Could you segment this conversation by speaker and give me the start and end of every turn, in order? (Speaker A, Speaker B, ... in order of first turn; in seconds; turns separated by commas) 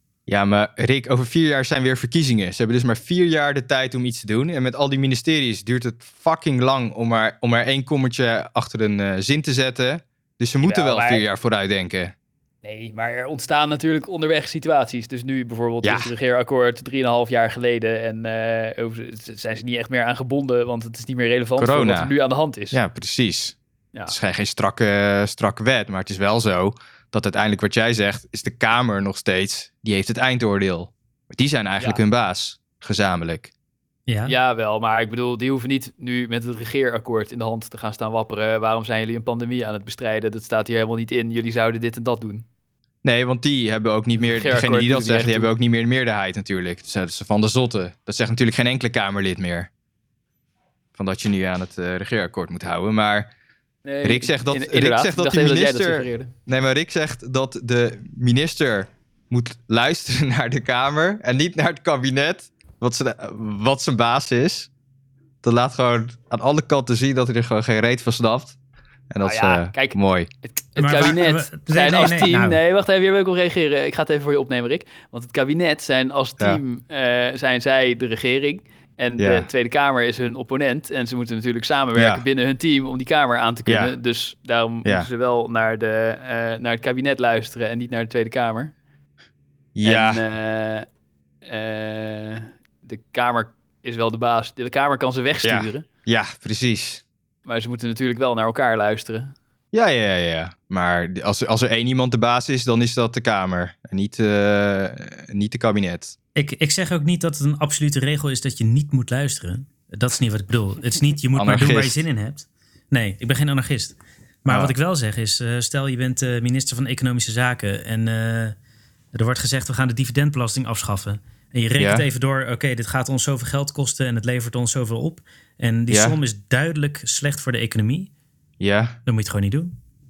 Speaker A: 0.3-12.1, Speaker B: 10.6-11.2, Speaker B: 12.6-22.8, Speaker A: 15.8-16.1, Speaker A: 21.6-22.1, Speaker A: 22.7-23.6, Speaker A: 24.1-33.5, Speaker C: 34.1-34.4, Speaker B: 34.3-42.5, Speaker A: 43.0-49.7, Speaker B: 44.3-45.5, Speaker A: 51.0-53.3, Speaker B: 53.9-56.3, Speaker A: 54.0-64.7, Speaker A: 65.4-68.6, Speaker A: 69.1-70.3, Speaker B: 69.2-88.7, Speaker C: 70.8-72.6, Speaker A: 79.2-79.5, Speaker A: 81.9-82.2, Speaker A: 83.7-83.9, Speaker A: 89.8-90.2, Speaker B: 89.8-90.9, Speaker B: 91.5-95.8, Speaker A: 95.4-97.0, Speaker B: 97.5-99.3, Speaker A: 99.7-106.2, Speaker C: 106.4-118.5, Speaker A: 111.3-112.0, Speaker A: 114.5-114.7, Speaker C: 119.1-128.1, Speaker A: 121.8-122.1, Speaker A: 125.9-126.2, Speaker A: 128.6-128.9, Speaker C: 129.1-129.7